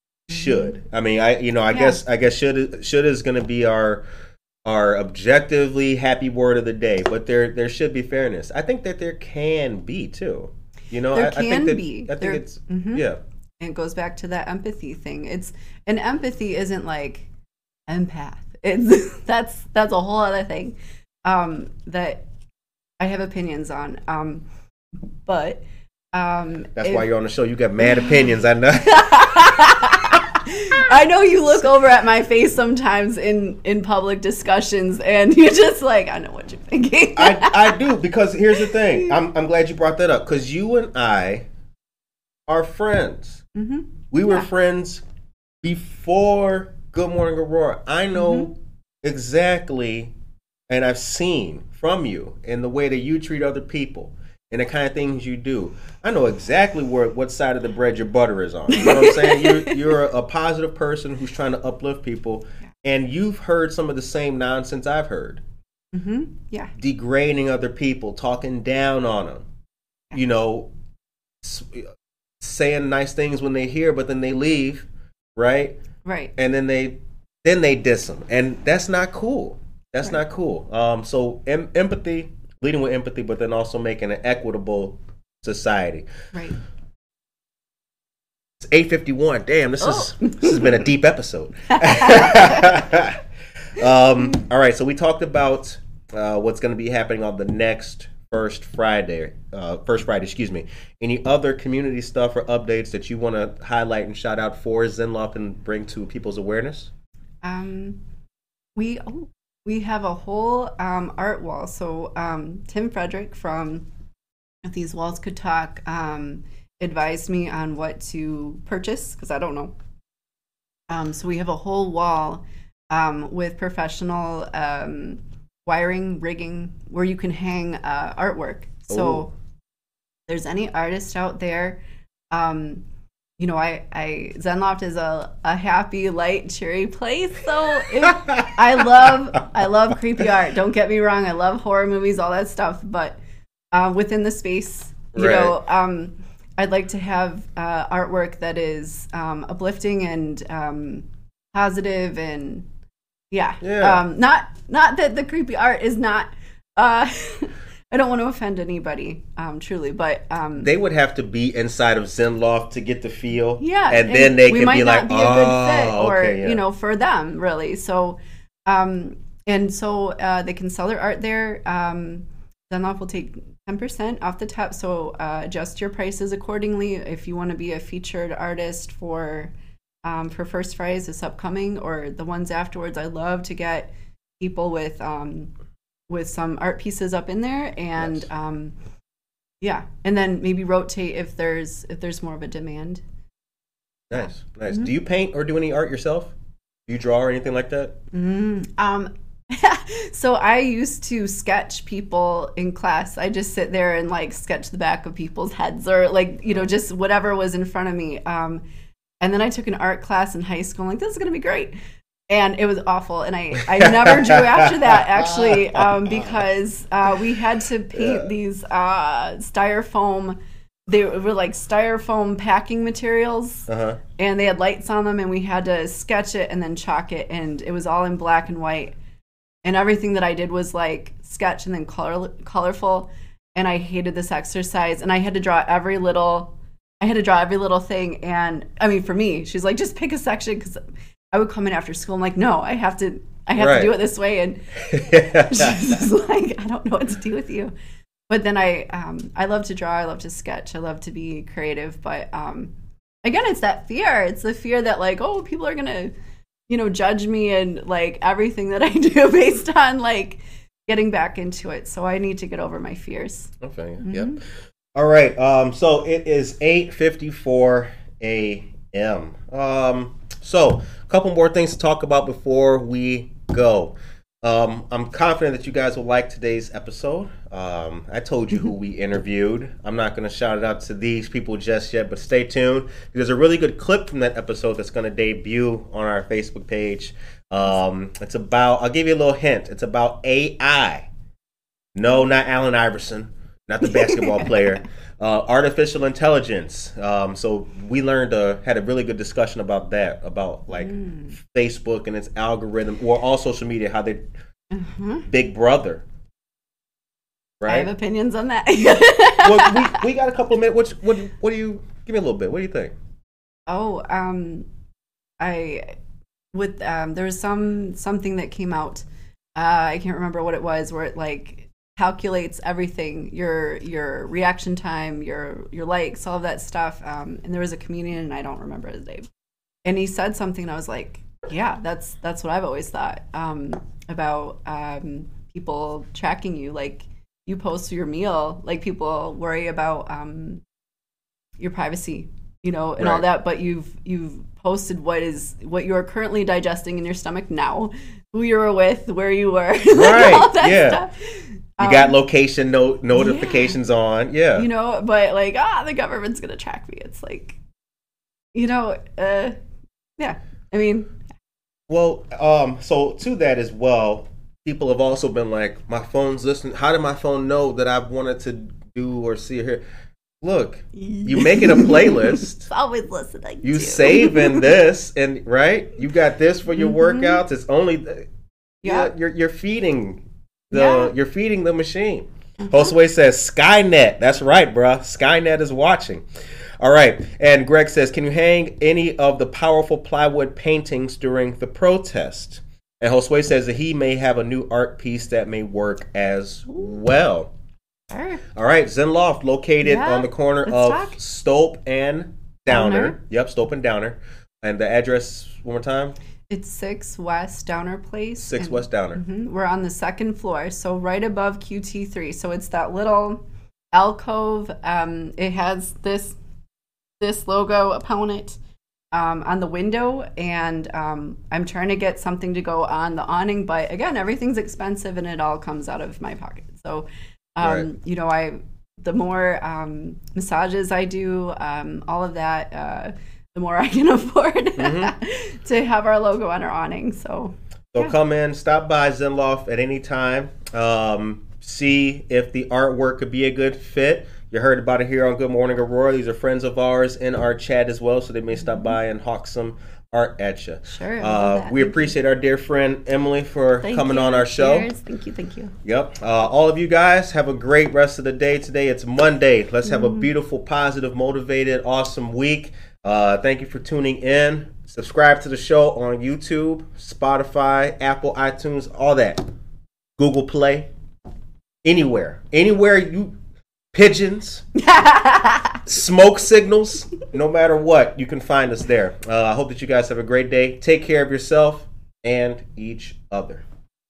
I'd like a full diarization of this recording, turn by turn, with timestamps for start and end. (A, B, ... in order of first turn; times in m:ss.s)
0:00.3-0:04.0 A
0:00.3-0:00.8 B
0:01.7-0:02.0 B
0:04.6-0:13.2 A
0:11.1-0:13.0 B
0:13.6-0:17.3 B
0:17.9-0:22.3 B
0:23.0-0:24.4 B
0:25.3-0:27.1 B
0:26.8-0:29.6 A
0:27.8-0:28.3 B
0:28.8-0:37.8 B
0:37.2-0:41.5 A
0:42.5-0:43.4 A
0:43.6-0:44.5 B
0:44.1-0:45.0 A
0:45.6-0:50.1 A
0:48.2-0:48.5 B
0:50.7-1:05.4 A
0:58.7-0:59.8 B
1:05.9-1:06.7 B
1:06.8-1:09.5 A
1:10.1-1:10.7 A
1:11.4-1:15.8 A
1:16.0-1:16.3 B
1:16.4-1:26.1 A
1:28.6-1:33.2 A
1:29.8-1:30.7 B
1:31.7-1:32.8 B
1:33.7-1:46.9 A
1:47.4-1:48.0 B
1:48.8-1:53.9 B
1:54.6-1:59.7 B
2:00.9-2:09.3 B
2:08.9-2:09.3 A
2:10.3-2:12.8 B
2:13.4-2:23.2 B
2:18.0-2:18.5 A
2:23.7-2:32.7 B
2:25.1-2:25.6 A
2:33.3-2:40.7 B
2:33.6-2:34.0 A
2:40.6-2:46.6 A
2:43.6-2:59.5 B
3:00.0-3:05.5 B
3:06.1-3:08.8 B
3:08.0-3:08.2 A
3:09.6-3:13.0 B
3:14.1-3:16.3 A
3:14.1-3:14.9 B
3:16.9-3:18.0 A
3:18.1-3:28.6 B
3:29.2-3:31.8 B
3:32.3-3:49.0 B
3:33.7-3:36.4 A
3:37.9-3:38.3 A
3:43.7-3:44.0 A
3:49.6-4:00.8 B
4:01.3-4:07.7 B
4:03.6-4:03.9 A
4:04.9-4:06.0 A
4:08.3-4:12.7 B
4:13.2-4:16.1 B
4:16.7-4:24.4 B
4:23.6-4:24.4 A
4:24.9-4:51.1 A
4:52.0-5:04.3 A
4:53.9-4:54.7 B
5:00.7-5:01.4 B
5:04.7-5:05.3 B
5:05.3-5:06.0 A
5:07.6-5:07.9 A
5:07.6-5:10.0 B
5:09.4-5:12.9 A
5:13.7-5:14.7 B
5:15.4-5:16.0 B
5:16.5-5:19.0 B
5:19.6-5:29.3 B
5:29.9-5:40.6 B
5:41.6-5:52.2 B
5:43.0-5:43.2 A
5:49.9-5:51.1 A
5:51.8-5:54.7 A
5:53.1-5:53.8 B
5:54.5-5:57.6 B
5:58.5-5:59.6 B
6:00.2-6:01.2 B
6:01.9-6:09.8 A
6:10.4-6:12.7 A
6:11.0-6:14.7 B
6:13.6-6:18.3 A
6:16.8-6:17.4 B
6:18.8-6:19.1 B
6:18.8-6:26.3 A
6:20.7-6:21.1 B
6:22.6-6:22.9 B
6:26.8-6:37.5 A
6:38.1-6:38.4 B
6:38.5-6:46.2 A
6:39.8-6:41.2 B
6:42.7-6:43.2 B
6:46.5-6:53.4 B
6:48.4-6:49.2 A
6:53.9-6:56.4 B
6:57.2-6:58.6 B
6:59.1-7:18.1 B
7:07.6-7:07.9 A
7:14.8-7:15.1 A
7:17.9-7:34.9 A
7:30.9-7:32.2 B
7:33.8-7:35.8 B
7:35.8-7:49.4 A
7:39.9-7:40.3 B
7:50.2-7:50.9 A
7:51.8-7:53.4 A
7:53.9-7:54.7 A
7:54.8-7:55.8 B
7:55.8-8:03.6 A